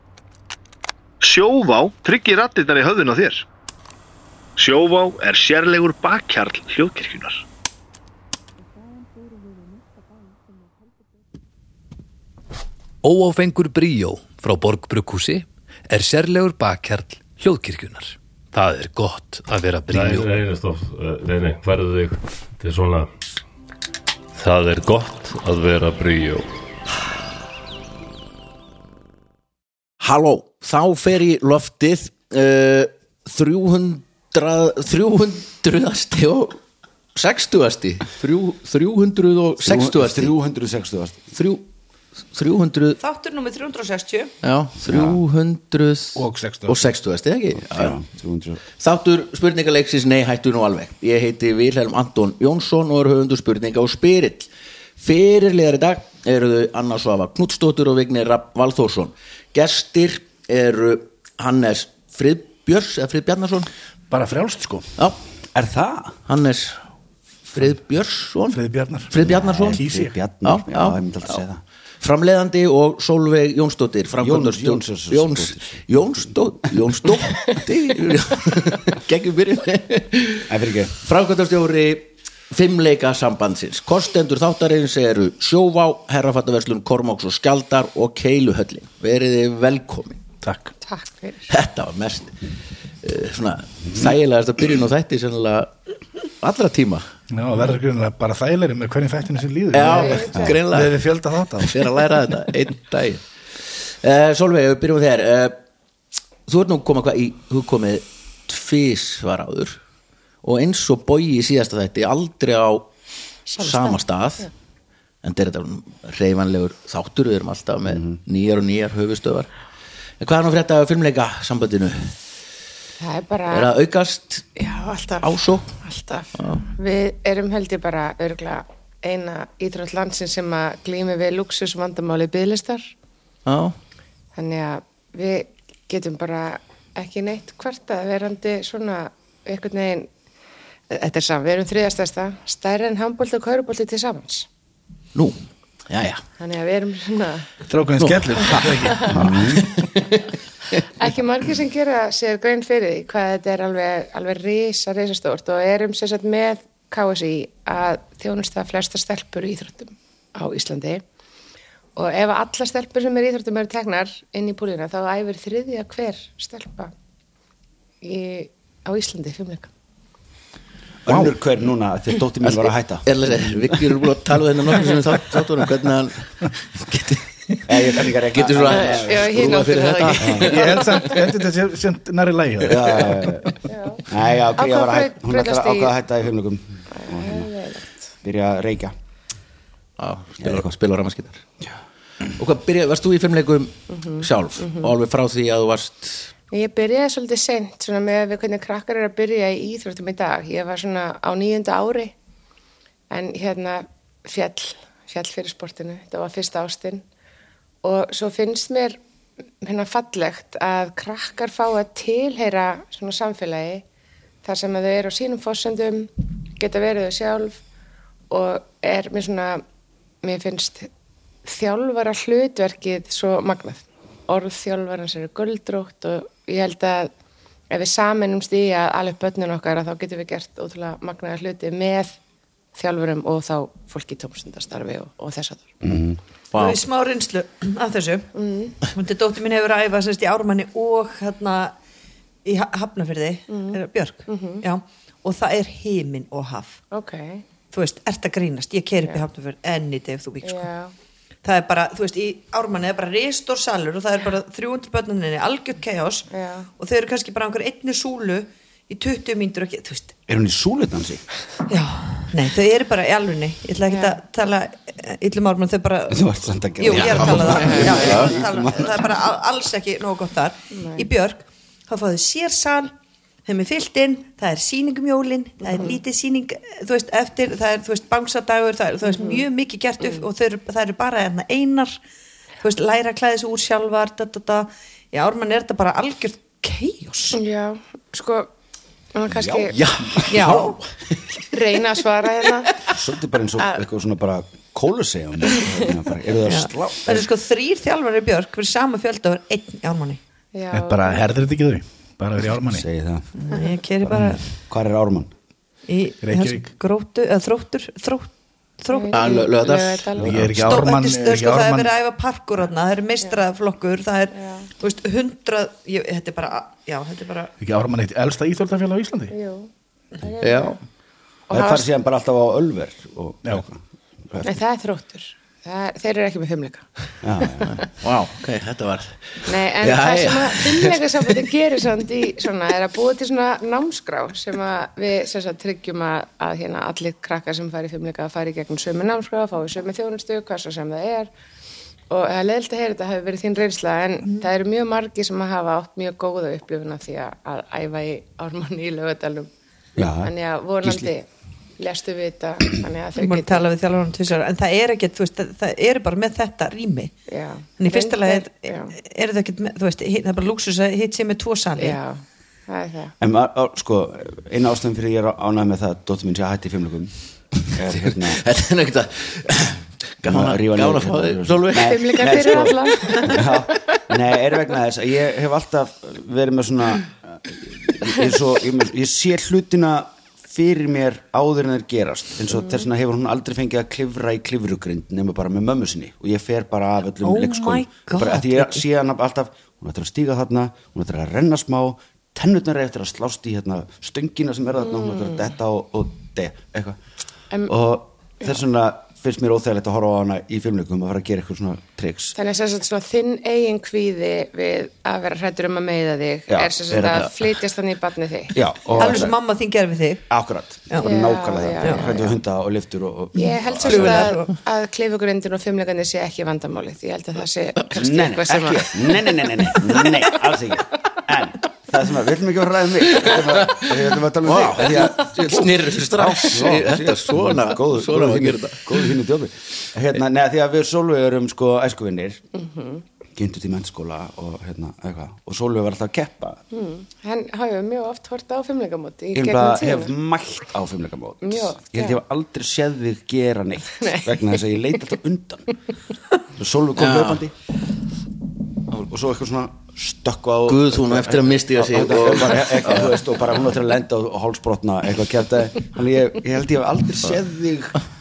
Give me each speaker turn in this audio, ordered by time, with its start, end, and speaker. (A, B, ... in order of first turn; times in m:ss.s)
0:01.2-0:03.4 A
0:04.6-0:07.4 A
0:13.0-0:20.3 B
0:19.9-0:23.1 C
0:24.3-0:26.5 C
0:30.0-0:36.6 D
0:37.1-0:40.3 D
0:39.6-0:41.3 E
0:41.3-0:41.6 D
0:42.3-0:43.0 D
0:43.0-0:44.3 F
0:44.4-0:48.0 D
0:44.8-0:45.2 E
0:46.2-0:46.9 G
0:47.6-0:48.6 E
0:48.8-1:03.7 D
1:04.1-1:04.8 G
1:05.5-1:06.2 E
1:06.3-1:06.8 D
1:07.5-1:08.6 D
1:08.5-1:09.1 G
1:09.1-1:09.8 D
1:09.2-1:11.6 E
1:09.7-1:10.1 G
1:10.4-1:11.4 D
1:12.0-1:20.5 D
1:14.2-1:15.8 E
1:20.5-1:20.9 E
1:21.0-1:30.2 D
1:30.4-1:30.7 G
1:30.8-1:31.5 H
1:31.5-1:32.3 D
1:33.0-1:35.7 D
1:36.4-1:37.0 D
1:37.3-1:41.8 G
1:39.7-1:41.0 D
1:39.8-1:40.5 H
1:41.6-1:43.2 D
1:43.8-1:45.6 D
1:46.5-1:49.8 D
1:50.4-1:52.9 D
1:53.5-1:54.5 H
1:53.6-1:54.5 D
1:55.2-1:59.5 D
1:57.9-1:58.2 E
2:00.2-2:02.2 D
2:03.0-2:03.7 H
2:03.5-2:04.5 D
2:04.6-2:12.9 H
2:05.2-2:05.7 D
2:06.4-2:06.6 D
2:13.4-2:13.8 D
2:14.3-2:20.1 H
2:20.9-2:24.5 H
2:25.1-2:26.2 D
2:26.4-2:27.5 H
2:27.7-2:29.5 G
2:28.0-2:28.7 D
2:28.5-2:29.1 H
2:29.1-2:29.6 E
2:29.5-2:30.8 D
2:30.9-2:41.0 H
2:42.0-2:46.9 H
2:48.0-2:49.7 H
2:51.0-2:53.8 E
2:51.1-2:51.3 G
2:52.4-2:57.5 D
2:57.7-2:59.6 E
2:58.1-3:01.0 D
2:58.7-3:01.1 H
3:00.2-3:00.5 E
3:00.4-3:03.6 G
3:02.6-3:03.5 E
3:03.7-3:04.0 H
3:04.1-3:07.5 E
3:04.6-3:05.9 H
3:07.0-3:08.0 H
3:08.2-3:08.9 E
3:10.0-3:11.4 D
3:10.4-3:10.7 E
3:12.4-3:16.3 D
3:13.9-3:14.9 H
3:16.5-3:22.1 H
3:23.1-3:27.0 H
3:27.8-3:29.0 H
3:29.6-3:33.8 H
3:34.4-3:37.6 H
3:38.3-3:39.6 H
3:40.2-3:40.9 H
3:41.4-3:47.1 H
3:47.7-3:52.1 H
3:52.7-3:55.7 H
3:55.8-3:56.2 E
3:56.5-3:56.8 D
3:56.5-3:58.3 F
3:58.3-3:58.8 H
3:58.9-4:01.7 F
4:02.4-4:06.8 F
4:03.5-4:04.6 H
4:06.9-4:07.4 H
4:07.7-4:10.7 F
4:10.4-4:10.9 H
4:11.4-4:20.1 F
4:16.3-4:16.7 H
4:20.3-4:21.2 E
4:21.7-4:32.9 F
4:23.9-4:24.2 H
4:26.1-4:29.0 E
4:26.9-4:28.3 D
4:27.5-4:28.2 H
4:30.7-4:31.0 H
4:33.4-4:42.0 F
4:35.7-4:36.0 H
4:39.2-4:39.4 H
4:42.6-4:47.4 F
4:47.3-4:48.5 H
4:49.1-4:49.8 H
4:49.3-4:50.3 E
4:49.7-4:51.4 D
4:50.3-4:50.8 F
4:51.5-4:52.7 H
4:52.9-4:57.3 E
4:56.4-5:00.2 F
5:00.5-5:01.2 H
5:00.7-5:02.8 G
5:02.6-5:03.3 E
5:03.4-5:04.4 F
5:04.1-5:05.3 E
5:05.9-5:09.2 F
5:06.2-5:06.7 G
5:08.9-5:10.4 H
5:09.1-5:10.1 D
5:10.2-5:10.6 E
5:10.2-5:11.9 G
5:10.6-5:17.5 F
5:14.4-5:14.6 H
5:17.6-5:19.3 G
5:19.3-5:20.8 H
5:20.4-5:20.8 D
5:21.5-5:21.9 H
5:21.5-5:24.6 E
5:24.4-5:26.9 H
5:27.2-5:27.7 E
5:27.4-5:27.7 H
5:27.7-5:31.4 D
5:29.4-5:41.3 H
5:42.1-5:49.5 H
5:50.0-5:51.1 E
5:50.2-5:51.3 H
5:51.8-5:53.6 H
5:53.2-5:57.1 F
5:57.3-5:58.9 H
5:57.8-6:02.0 F
6:01.8-6:03.1 H
6:03.2-6:08.4 E
6:07.9-6:12.5 D
6:10.2-6:37.0 E
6:11.8-6:13.6 H
6:22.5-6:22.8 H
6:27.2-6:28.8 F
6:34.8-6:35.4 H
6:37.6-6:42.4 E
6:42.3-6:48.6 H
6:46.5-6:47.3 E
6:48.5-6:49.4 E
6:49.0-6:50.2 F
6:50.3-6:54.3 E
6:50.9-6:51.2 F
6:51.0-6:52.4 H
6:51.8-6:52.1 F
6:53.4-7:00.1 H
6:53.8-6:54.5 F
6:58.0-7:12.4 E
7:03.1-7:03.9 D
7:04.4-7:09.1 D
7:12.5-7:13.0 H
7:13.4-7:16.6 E
7:16.7-7:20.1 H
7:19.3-7:25.7 E
7:21.4-7:22.2 H
7:24.0-7:24.2 H
7:26.5-7:27.5 E
7:27.0-7:27.4 D
7:28.9-7:38.0 E
7:30.6-7:33.2 D